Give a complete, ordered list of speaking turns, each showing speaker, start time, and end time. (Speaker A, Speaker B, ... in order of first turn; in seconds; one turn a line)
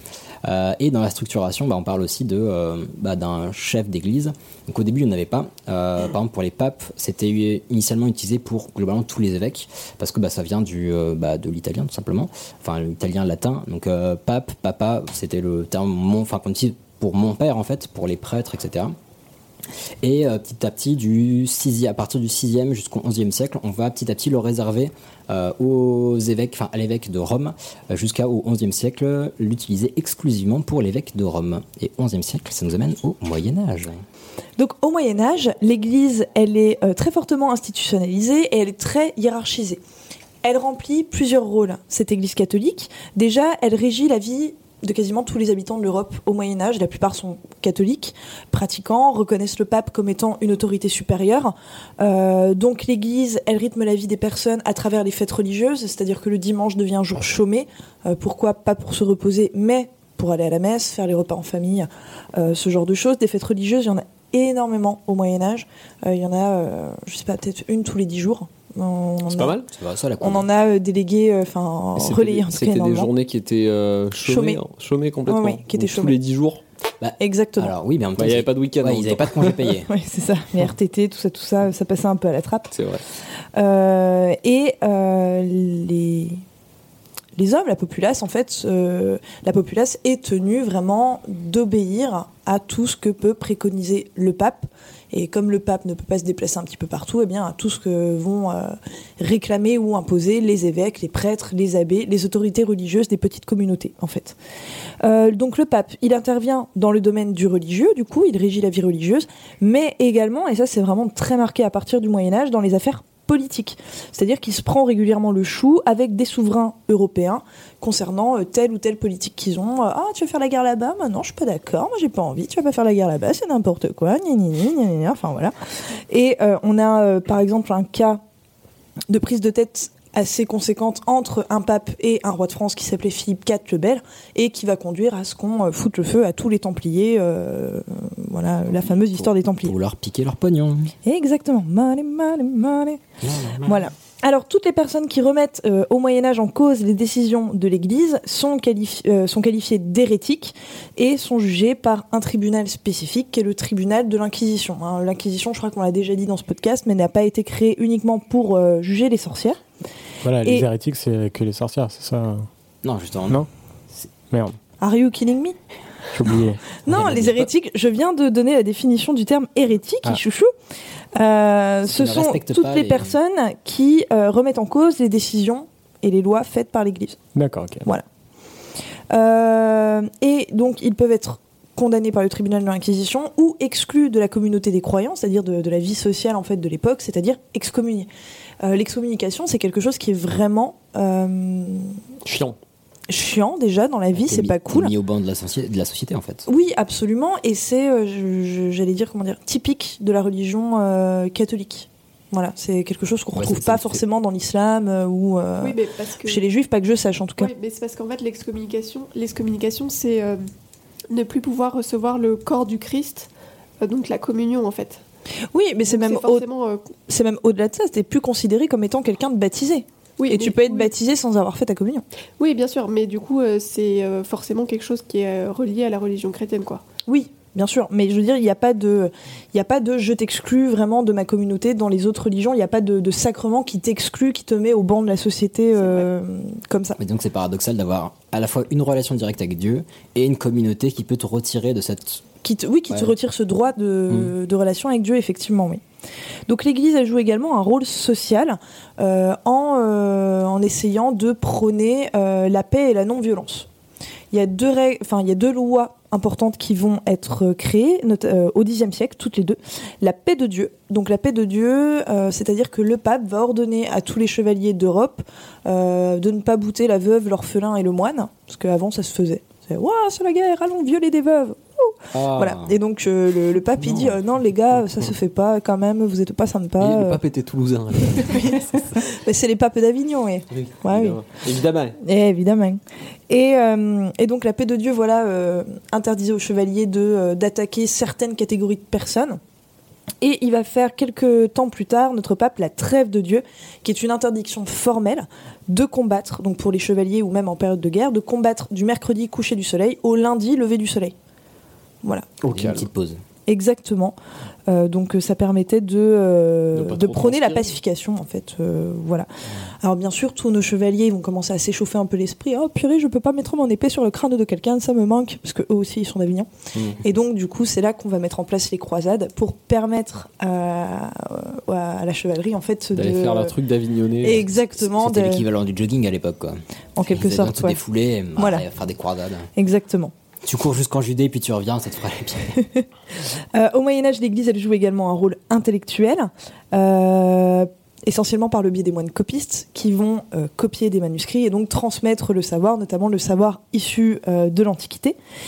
Speaker A: 0.4-18.9
Speaker A: 20.0-34.0
Speaker B: 34.6-39.8
Speaker B: 40.4-69.6
Speaker C: 69.3-69.7
Speaker A: 69.7-70.5
Speaker B: 70.2-73.1
Speaker C: 72.0-76.6
Speaker B: 74.2-74.6
Speaker B: 75.3-76.2
Speaker A: 77.0-79.9
Speaker B: 77.2-77.7
Speaker C: 78.2-79.7
Speaker B: 79.9-82.8
Speaker C: 82.7-83.0
Speaker B: 83.5-86.4
Speaker B: 87.4-104.4
Speaker B: 105.0-125.5
Speaker B: 126.1-128.2
Speaker B: 129.1-139.7
Speaker A: 139.2-140.9
Speaker B: 141.1-143.0
Speaker A: 143.2-143.8
Speaker B: 143.6-159.6
Speaker D: 160.2-162.5
Speaker B: 160.4-160.7
Speaker A: 162.8-163.4
Speaker D: 164.3-164.6
Speaker B: 164.8-165.6
Speaker D: 166.1-166.8
Speaker B: 166.9-170.5
Speaker A: 166.9-167.4
Speaker B: 171.1-177.2
Speaker A: 171.9-173.1
Speaker D: 177.3-177.9
Speaker B: 179.1-188.1
Speaker B: 188.6-192.0
Speaker C: 192.2-192.6
Speaker B: 193.1-194.9
Speaker A: 194.2-196.4
Speaker B: 196.5-207.5
Speaker A: 203.4-204.0
Speaker E: 205.6-206.4
Speaker E: 207.4-210.4
Speaker E: 211.1-213.3
Speaker E: 213.8-215.0
Speaker B: 215.5-216.5
Speaker E: 215.9-216.9
Speaker B: 217.1-222.1
Speaker E: 220.2-220.9
Speaker E: 222.4-226.8
Speaker B: 227.1-237.0
Speaker E: 235.8-236.1
Speaker A: 237.0-242.2
Speaker B: 242.4-245.8
Speaker B: 246.5-253.7
Speaker B: 254.3-277.2
Speaker A: 272.1-272.8
Speaker A: 273.8-274.1
Speaker C: 276.8-278.8
Speaker B: 278.0-281.2
Speaker C: 280.5-282.0
Speaker B: 282.0-289.4
Speaker B: 290.2-301.1
Speaker B: 302.0-302.3
Speaker C: 302.4-302.9
Speaker A: 302.5-303.2
Speaker B: 303.5-304.2
Speaker B: 304.7-309.3
Speaker C: 306.7-307.7
Speaker B: 309.8-316.5
Speaker B: 317.0-323.6
Speaker C: 322.9-324.4
Speaker B: 324.2-325.5
Speaker A: 324.8-329.5
Speaker B: 327.0-327.8
Speaker B: 328.4-328.7
Speaker B: 329.6-330.1
Speaker A: 330.4-332.6
Speaker B: 332.6-332.9
Speaker B: 333.4-345.2